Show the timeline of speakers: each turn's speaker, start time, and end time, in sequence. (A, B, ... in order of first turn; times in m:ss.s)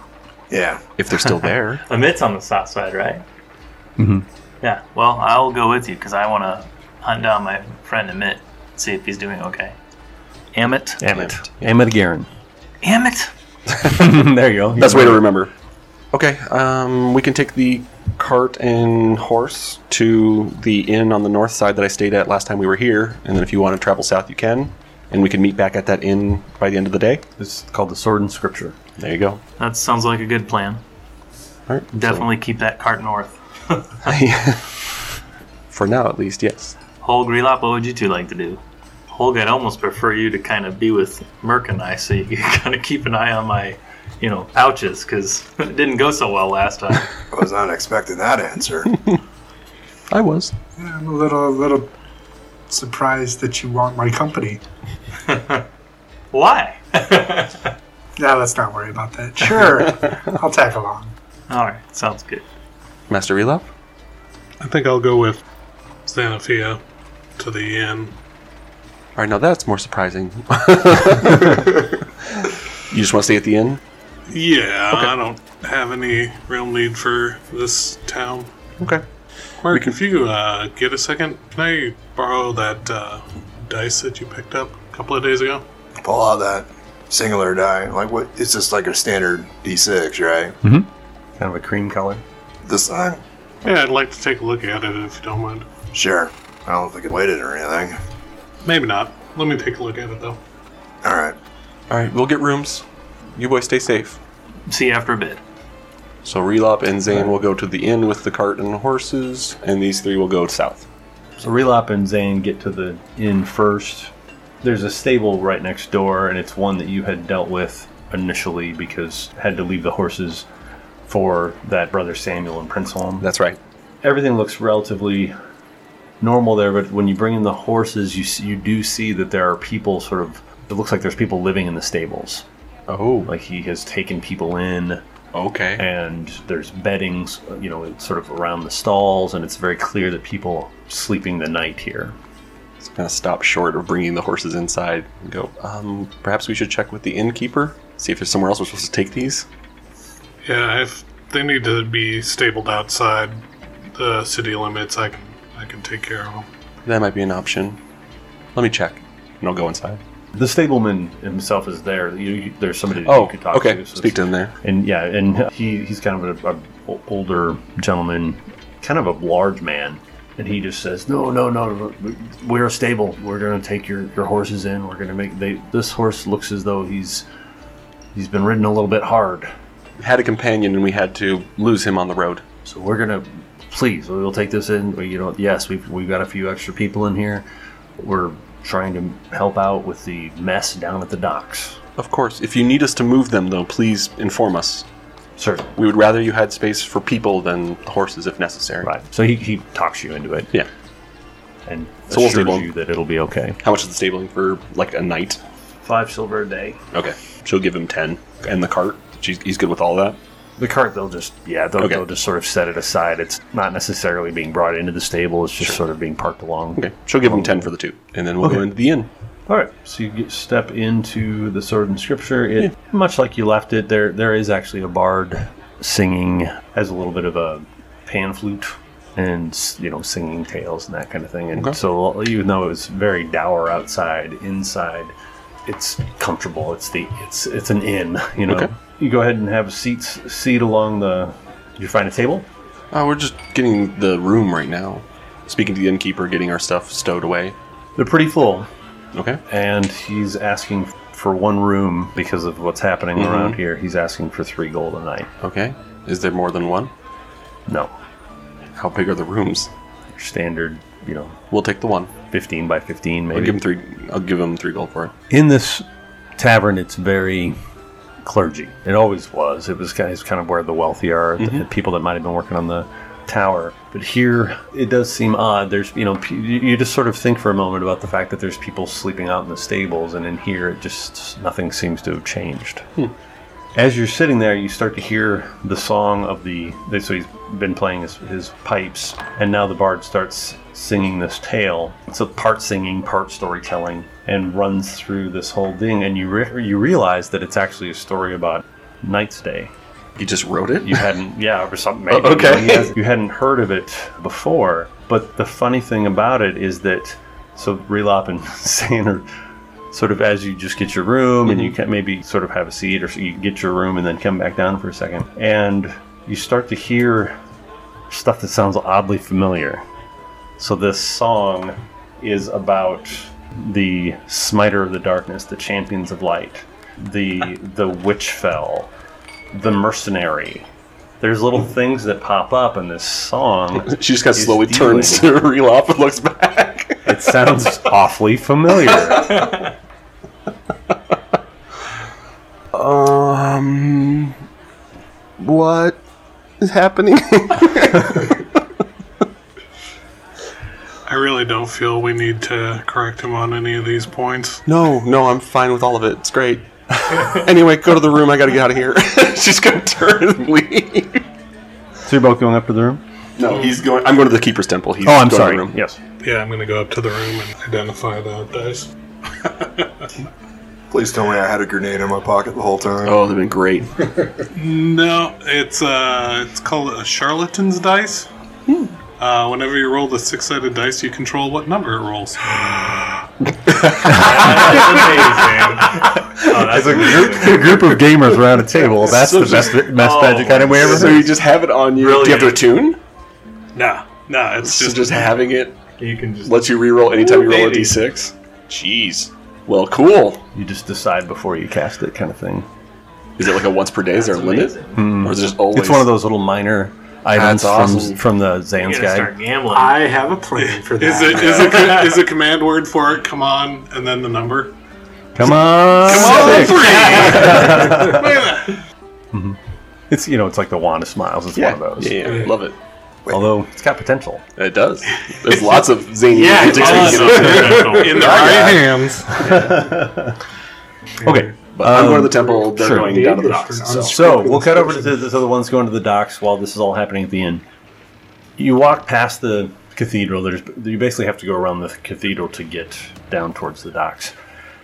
0:00.5-0:00.8 A
0:01.0-0:01.8 B
0:01.9-0:03.2 C
0:04.0-0:04.2 D
0:04.6-0:09.8 C
0:10.5-0:11.0 C
0:11.0-0:12.3 D
0:11.1-0:11.5 B
0:12.8-0:13.3 C
0:13.8-0:15.2 D
0:14.8-0:15.5 B
0:16.1-0:27.2 B
0:27.4-0:28.8 D
0:29.0-0:29.4 B
0:29.6-0:30.8 C
0:31.7-0:32.3 B
0:31.9-0:34.1 C
0:34.0-0:35.0 B
0:35.7-0:36.8 B
0:37.0-0:47.1 C
0:47.3-0:49.0 A
0:50.1-0:50.5 B
0:50.8-0:51.9 E
0:52.7-0:54.6 E
0:55.3-0:55.6 C
0:56.3-0:57.7 C
0:58.2-1:01.1 E
1:01.5-1:02.4 C
1:03.1-1:03.7 B
1:04.6-1:05.4 F
1:06.1-1:06.8 F
1:07.4-1:08.1 F
1:09.2-1:12.0 B
1:12.9-1:13.8 B
1:14.3-1:18.5 F
1:19.6-1:25.6 F
1:19.7-1:20.0 B
1:26.0-1:30.6 A
1:30.6-1:32.2 D
1:32.7-1:33.2 A
1:33.6-1:35.7 F
1:35.9-1:38.0 A
1:38.6-1:40.4 F
1:41.0-1:41.4 A
1:41.9-1:42.8 B
1:43.4-1:44.2 B
1:44.7-1:45.4 C
1:46.2-1:50.9 B
1:51.4-2:00.5 D
2:01.1-2:03.3 D
2:03.2-2:03.6 B
2:04.0-2:05.4 D
2:06.2-2:12.4 D
2:12.9-2:13.3 B
2:13.2-2:15.0 D
2:15.3-2:15.8 B
2:15.8-2:22.2 D
2:22.8-2:29.5 B
2:30.4-2:33.4 F
2:33.9-2:36.5 F
2:36.8-2:37.8 B
2:38.6-2:40.0 B
2:40.4-2:57.3 D
2:43.0-2:44.6 B
2:58.1-2:59.5 D
3:00.0-3:02.4 B
3:02.6-3:07.4 D
3:08.0-3:11.8 D
3:12.0-3:14.8 B
3:15.4-3:15.7 D
3:15.8-3:18.9 B
3:18.8-3:20.5 D
3:21.7-3:23.6 D
3:22.1-3:22.7 B
3:23.6-3:25.4 B
3:25.8-3:26.8 D
3:26.9-3:30.2 B
3:30.6-3:37.7 D
3:36.8-3:39.1 B
3:38.4-3:38.7 D
3:39.5-3:55.1 D
3:55.7-4:02.5 D
4:02.9-4:07.6 B
4:08.0-4:08.7 D
4:09.1-4:09.4 B
4:09.5-4:15.3 D
4:13.2-4:13.6 B
4:15.4-4:16.9 B
4:17.7-4:17.9 D
4:18.8-4:19.7 B
4:20.1-4:21.4 D
4:21.5-4:22.1 B
4:22.3-4:23.6 D
4:23.3-4:25.1 B
4:25.3-4:25.8 D
4:26.4-4:27.6 D
4:28.2-4:42.9 D
4:31.4-4:31.6 B
4:43.8-4:59.7 D
5:00.2-5:01.1 B
5:00.8-5:09.3 D
5:02.1-5:03.0 B
5:09.9-5:17.4 D
5:18.1-5:19.8 D
5:20.6-5:28.9 D
5:29.5-5:30.7 D
5:31.2-5:35.3 D
5:33.9-5:37.1 B
5:37.0-5:39.5 D
5:42.7-5:44.4 B
5:45.4-5:46.0 B
5:46.6-5:48.6 B
5:51.1-5:54.6 F
5:54.7-6:01.2 B
6:02.0-6:03.0 D
6:03.4-6:05.8 B
6:05.0-6:06.0 D
6:06.2-6:08.9 F
6:09.4-6:09.9 F
6:10.9-6:13.2 A
6:13.0-6:14.2 B
6:14.5-6:18.3 F
6:19.2-6:23.2 F
6:24.0-6:27.8 C
6:24.1-6:25.3 D
6:25.9-6:31.3 D
6:29.0-6:29.9 B
6:29.8-6:31.3 C
6:30.8-6:33.0 B
6:32.0-6:32.6 C
6:33.8-6:35.3 F
6:34.6-6:35.8 B
6:36.0-6:38.0 C
6:36.4-6:40.4 B
6:40.5-6:42.7 D
6:43.4-6:46.1 B
6:44.1-6:45.1 C
6:45.0-6:49.3 D
6:47.3-6:48.2 B
6:48.8-6:50.0 C
6:49.7-6:52.0 E
6:50.6-6:54.7 F
6:55.4-6:58.4 D
6:56.0-6:58.1 B
6:56.1-6:58.8 F
6:59.3-6:59.6 D
7:00.1-7:02.2 D
7:01.6-7:02.8 B
7:03.3-7:04.4 D
7:04.6-7:09.6 B
7:06.3-7:08.5 C
7:06.5-7:09.6 F
7:06.8-7:07.3 E
7:09.3-7:10.4 D
7:11.2-7:13.2 D
7:11.7-7:14.5 B
7:12.3-7:15.1 E
7:14.1-7:17.6 D
7:18.6-7:24.4 D